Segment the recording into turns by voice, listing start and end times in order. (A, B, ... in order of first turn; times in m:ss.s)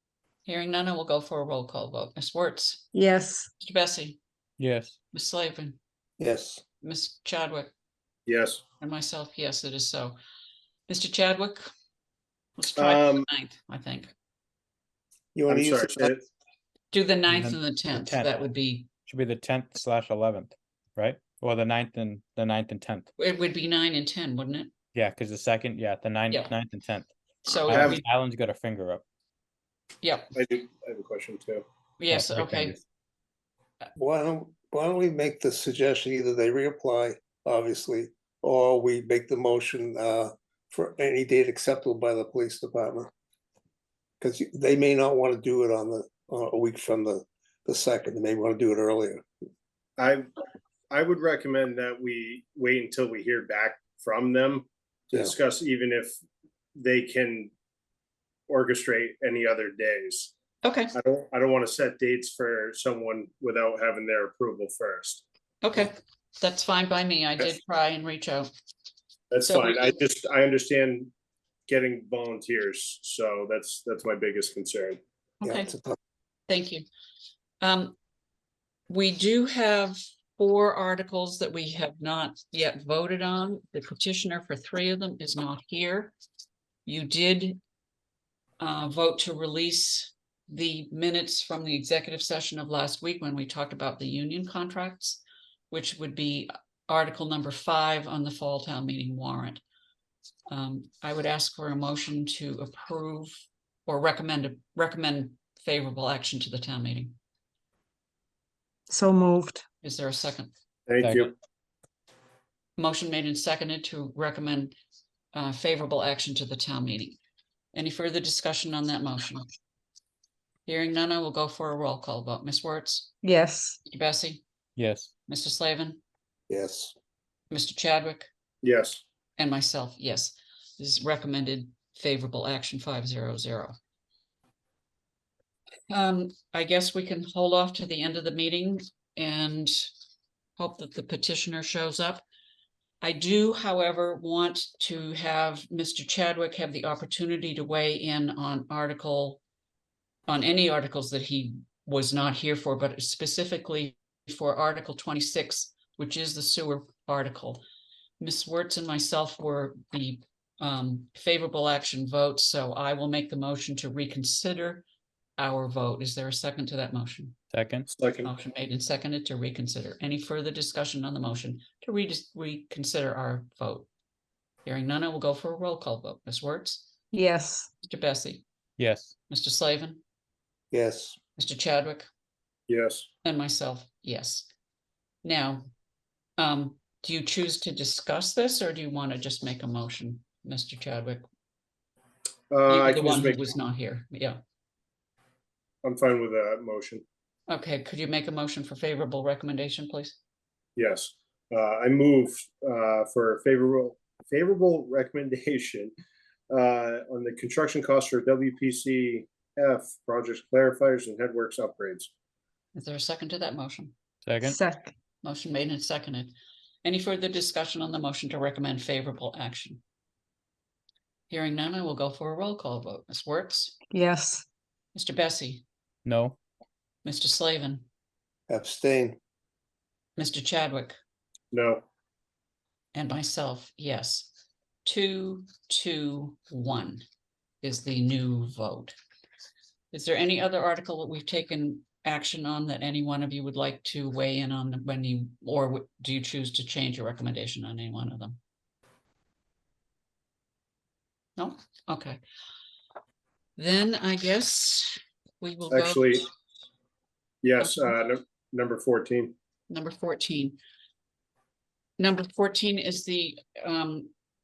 0:00.4-0:02.9 A
0:02.9-0:03.5 B
0:03.6-0:04.2 A
0:04.6-0:05.0 C
0:05.1-0:05.8 A
0:06.2-0:06.6 D
0:06.8-0:07.7 A
0:08.3-0:08.6 E
0:08.8-0:10.2 A
0:10.9-0:11.7 A
0:12.6-0:14.1 A
0:12.8-0:13.2 E
0:15.3-0:16.1 D
0:15.5-0:16.2 E
0:16.9-0:18.9 A
0:17.3-0:18.4 C
0:19.0-0:23.1 C
0:23.2-0:24.7 A
0:24.9-0:27.1 C
0:27.4-0:28.0 A
0:27.6-0:29.0 C
0:27.7-0:28.0 E
0:30.0-0:30.3 A
0:30.3-0:31.6 E
0:32.0-0:32.8 A
0:32.1-0:32.8 C
0:34.0-0:43.1 D
0:44.2-0:49.2 D
0:50.0-0:50.3 E
0:50.9-0:56.1 E
0:56.8-0:57.5 E
0:58.5-1:00.3 E
1:00.6-1:00.9 A
1:00.9-1:05.2 E
1:05.6-1:08.5 A
1:09.3-1:11.1 E
1:09.4-1:09.9 A
1:11.7-1:15.0 E
1:15.4-1:15.7 A
1:15.4-1:16.0 D
1:16.5-1:16.8 A
1:17.6-1:18.0 A
1:18.9-1:26.2 A
1:26.8-1:27.6 A
1:28.6-1:39.6 A
1:40.5-1:43.3 A
1:43.8-1:47.1 A
1:48.9-1:49.6 B
1:49.8-1:50.5 A
1:50.9-1:51.3 E
1:51.0-1:51.3 C
1:52.8-1:54.7 A
1:55.3-1:57.2 A
1:57.7-1:59.4 A
2:00.6-2:03.1 A
2:03.2-2:03.8 B
2:03.9-2:04.4 A
2:04.8-2:05.1 C
2:05.3-2:06.0 A
2:06.5-2:06.9 D
2:07.5-2:08.3 A
2:08.6-2:09.0 E
2:09.4-2:13.8 A
2:15.9-2:19.9 A
2:20.6-2:22.2 A
2:23.0-2:29.4 A
2:30.3-2:37.6 A
2:38.2-2:44.8 A
2:45.4-2:47.4 A
2:47.5-2:47.9 C
2:47.9-2:48.3 E
2:48.2-2:53.9 A
2:54.6-2:56.9 A
2:57.1-2:57.7 B
2:57.8-2:58.4 A
2:58.8-2:59.1 C
2:59.3-3:00.0 A
3:00.7-3:01.2 D
3:01.4-3:02.1 A
3:02.7-3:03.1 E
3:03.2-3:04.5 A
3:05.2-3:05.6 A
3:06.4-3:11.2 A
3:12.5-3:13.4 E
3:12.7-3:14.4 A
3:15.8-3:17.0 E
3:17.5-3:20.2 A
3:20.8-3:25.9 E
3:26.5-3:32.1 E
3:32.7-3:33.9 A
3:34.2-3:34.6 C
3:34.4-3:34.9 B
3:35.2-3:36.3 A
3:36.8-3:39.8 A
3:41.3-3:43.8 A
3:43.9-3:44.4 B
3:44.9-3:45.6 A
3:46.0-3:46.4 C
3:47.0-3:47.8 A
3:48.5-3:49.2 D
3:50.2-3:51.0 A
3:51.5-3:51.8 E
3:52.9-3:54.3 A
3:54.8-3:57.0 A
3:57.6-3:58.9 A
3:59.9-4:08.4 A
4:11.4-4:12.2 A
4:13.6-4:16.3 A
4:15.7-4:16.2 E
4:17.4-4:19.3 E
4:19.7-4:20.6 A
4:22.0-4:24.1 A